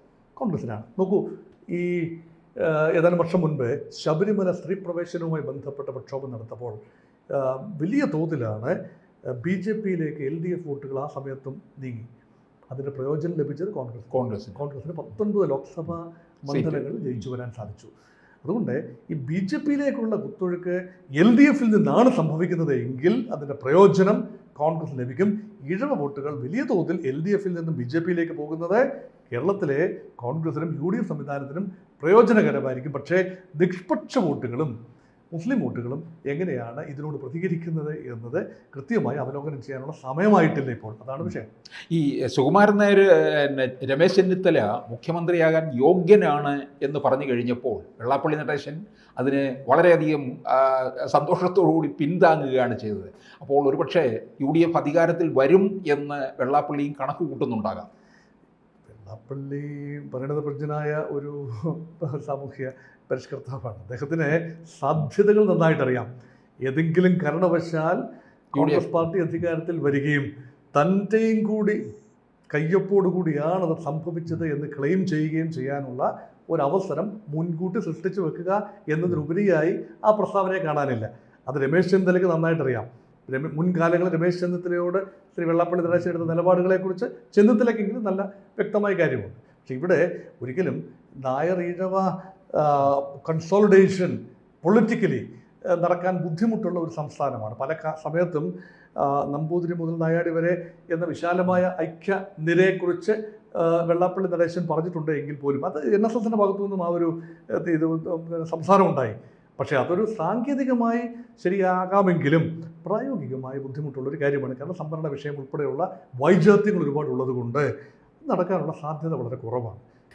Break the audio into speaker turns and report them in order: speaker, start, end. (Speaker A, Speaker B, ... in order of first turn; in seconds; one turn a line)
Speaker A: 0.3-6.8
Speaker A: 7.3-8.7
Speaker A: 9.3-12.1
Speaker A: 12.7-17.9
Speaker B: 14.1-14.6
Speaker B: 16.5-16.9
Speaker A: 18.4-34.7
Speaker A: 35.3-41.5
Speaker B: 41.9-57.9
Speaker A: 58.9-66.1
Speaker A: 66.6-68.0
Speaker A: 68.5-71.9
Speaker B: 68.5-68.9
Speaker A: 72.5-117.7
Speaker A: 118.2-119.8